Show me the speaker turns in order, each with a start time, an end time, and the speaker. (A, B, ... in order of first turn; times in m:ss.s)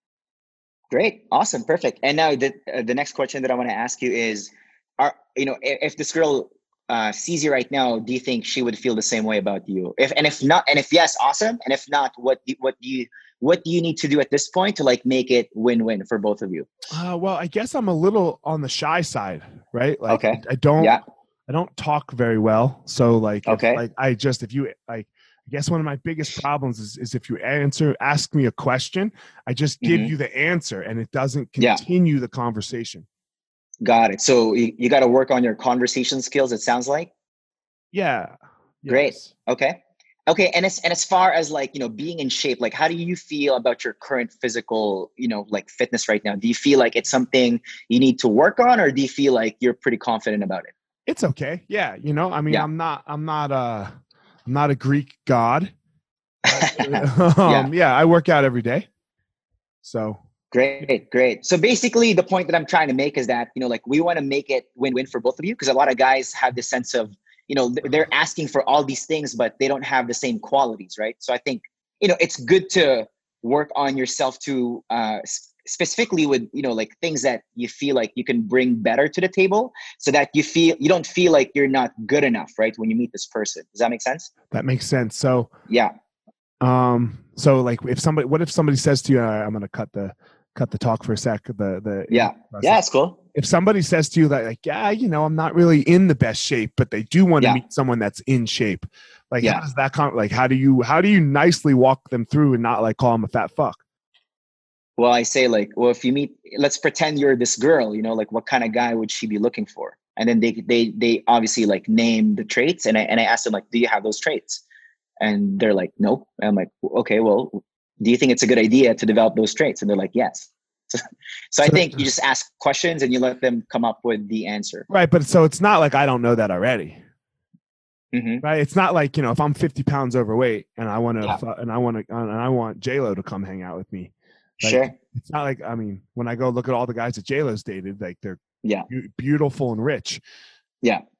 0:00.9-0:16.7 A
0:16.9-0:21.0 B
0:20.1-0:21.0 A
0:21.5-0:33.0 B
0:23.4-0:23.8 A
0:29.8-0:30.1 A
0:33.8-0:37.1 A
0:37.9-0:39.3 B
0:38.9-0:39.8 A
0:40.3-0:50.7 A
0:51.1-0:53.9 B
0:54.5-0:55.7 B
0:56.5-0:58.9 B
0:56.5-0:57.7 A
0:59.8-1:00.2 B
1:00.5-1:24.3 A
1:24.5-1:25.5 B
1:26.6-1:32.8 B
1:32.1-1:33.2 A
1:33.3-1:43.8 B
1:45.0-1:54.6 A
1:55.2-2:04.8 A
2:01.6-2:02.0 B
2:04.9-2:07.0 B
2:08.1-2:08.4 A
2:08.4-2:20.2 B
2:14.6-2:14.9 A